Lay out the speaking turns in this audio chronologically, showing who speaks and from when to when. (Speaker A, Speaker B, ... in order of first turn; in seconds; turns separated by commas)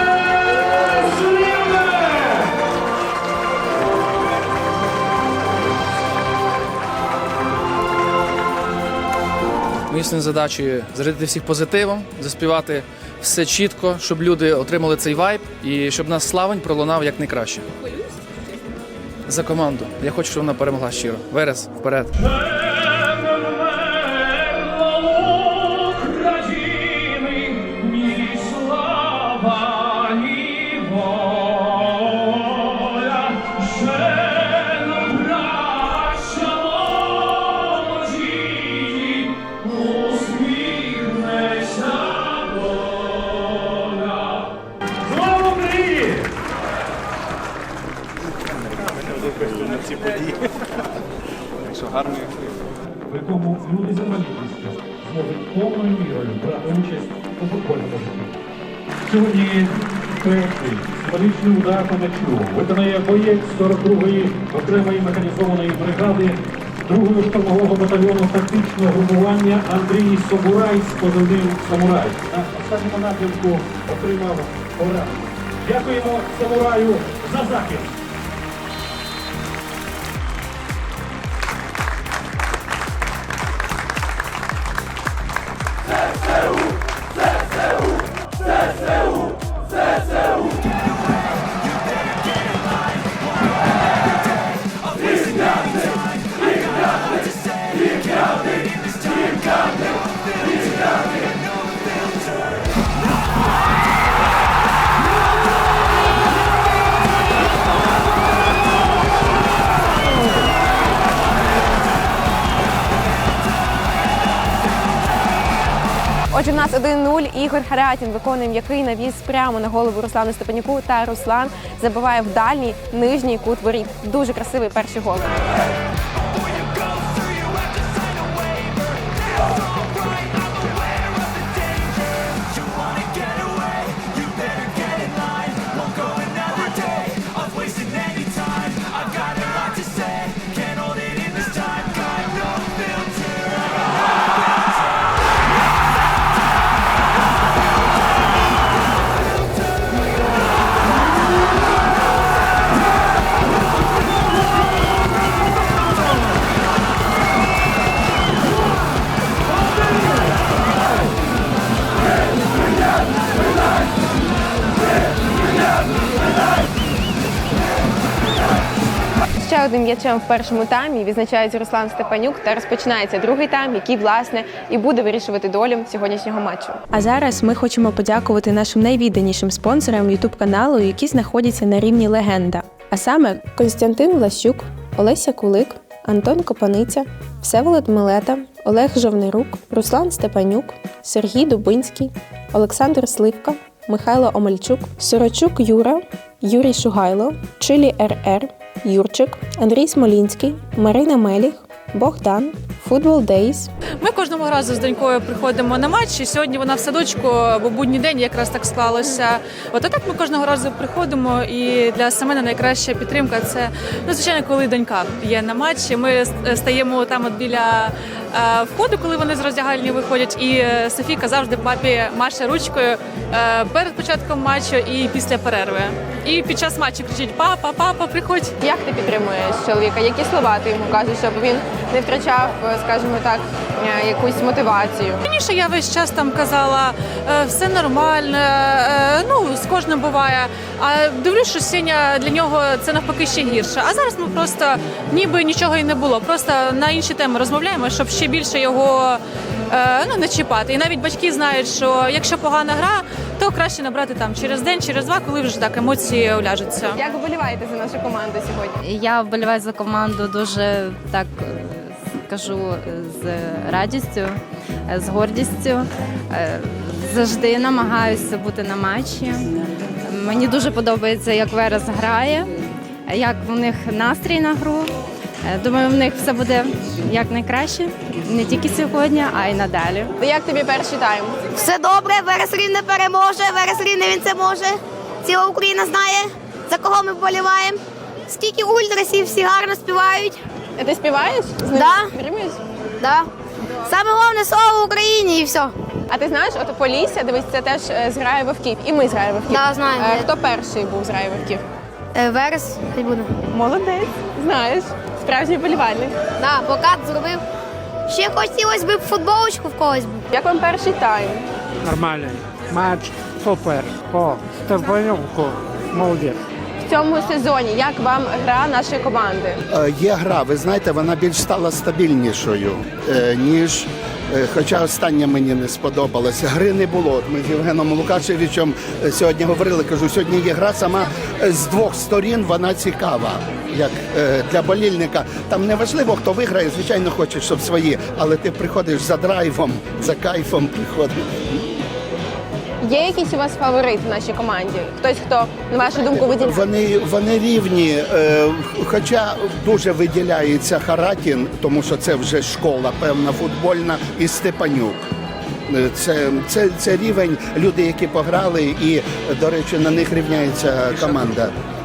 Speaker A: 9.9-17.6, Speaker A: 19.3-22.1, Speaker A: 25.9-28.9, Speaker B: 45.1-46.3, Speaker B: 53.1-58.3, Speaker B: 59.0-77.9, Speaker C: 116.3-125.3, Speaker C: 169.4-203.7, Speaker D: 204.0-228.5, Speaker C: 228.6-235.2, Speaker D: 235.2-257.0, Speaker C: 256.9-258.8, Speaker E: 258.8-272.5, Speaker E: 273.1-280.1, Speaker C: 280.2-281.4, Speaker F: 281.6-290.4, Speaker C: 290.8-292.6, Speaker F: 291.7-292.1, Speaker F: 293.0-293.2, Speaker F: 293.9-295.7, Speaker C: 296.1-301.6, Speaker F: 299.5-300.2, Speaker F: 302.1-303.3, Speaker C: 303.5-306.1, Speaker F: 306.4-307.4, Speaker F: 308.1-310.2, Speaker C: 310.3-311.5, Speaker G: 311.9-316.3, Speaker C: 316.8-319.6, Speaker H: 319.7-341.1, Speaker C: 342.8-346.7, Speaker H: 346.5-355.0, Speaker H: 355.7-361.5